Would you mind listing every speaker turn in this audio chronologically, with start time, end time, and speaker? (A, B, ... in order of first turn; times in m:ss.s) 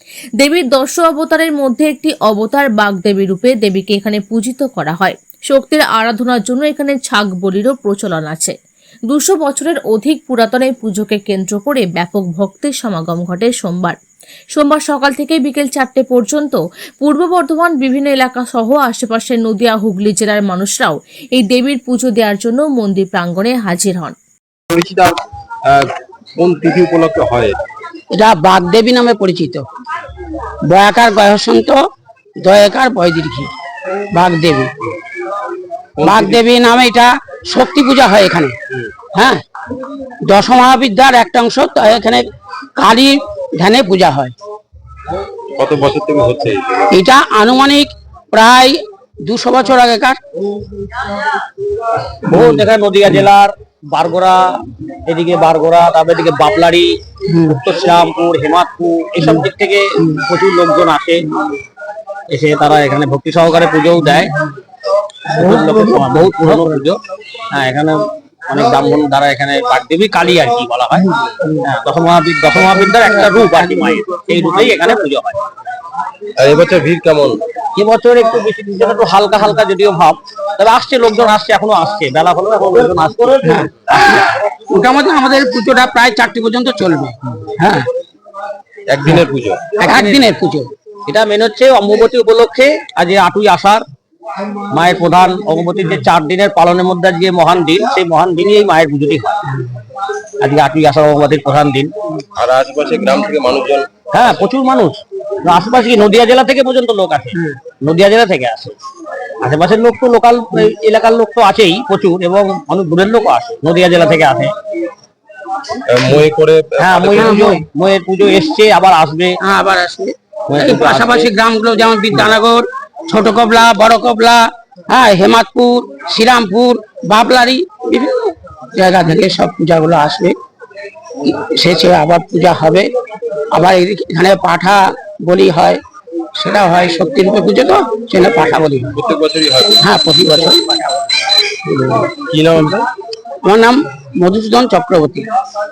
0:00.4-0:08.5 A
0:09.1-0:14.0 A
0:14.5-0:24.2 A
0:24.7-0:27.6 B
0:28.1-0:29.6 C
0:30.7-0:31.8 C
0:32.4-0:33.5 C
0:34.1-0:34.7 C
0:36.0-0:36.4 B
0:36.0-0:38.5 C
0:39.1-0:39.4 C
0:40.2-0:42.2 C
0:42.8-0:44.3 C
0:45.6-0:46.9 B
0:46.9-0:50.2 C
0:52.3-1:01.2 D
0:52.3-0:52.6 C
1:02.3-1:04.3 D
1:05.3-1:07.0 D
1:07.5-1:11.1 D
1:11.6-1:15.4 D
1:16.4-1:17.4 B
1:17.8-1:23.6 D
1:23.4-1:27.9 C
1:28.9-1:29.7 B
1:29.8-1:30.7 C
1:29.8-1:30.2 D
1:31.1-1:33.8 D
1:34.7-1:39.4 D
1:40.4-1:41.9 D
1:42.4-1:43.9 B
1:44.1-1:48.8 D
1:49.4-1:54.5 D
1:55.9-1:57.6 B
1:56.8-1:59.4 D
1:57.2-1:57.6 C
1:59.4-2:10.3 C
2:00.5-2:01.3 D
2:11.2-2:12.9 C
2:13.5-2:15.8 C
2:16.4-2:18.9 C
2:18.9-2:19.8 B
2:19.8-2:20.6 C
2:20.5-2:20.9 D
2:21.7-2:22.9 B
2:23.4-2:25.3 C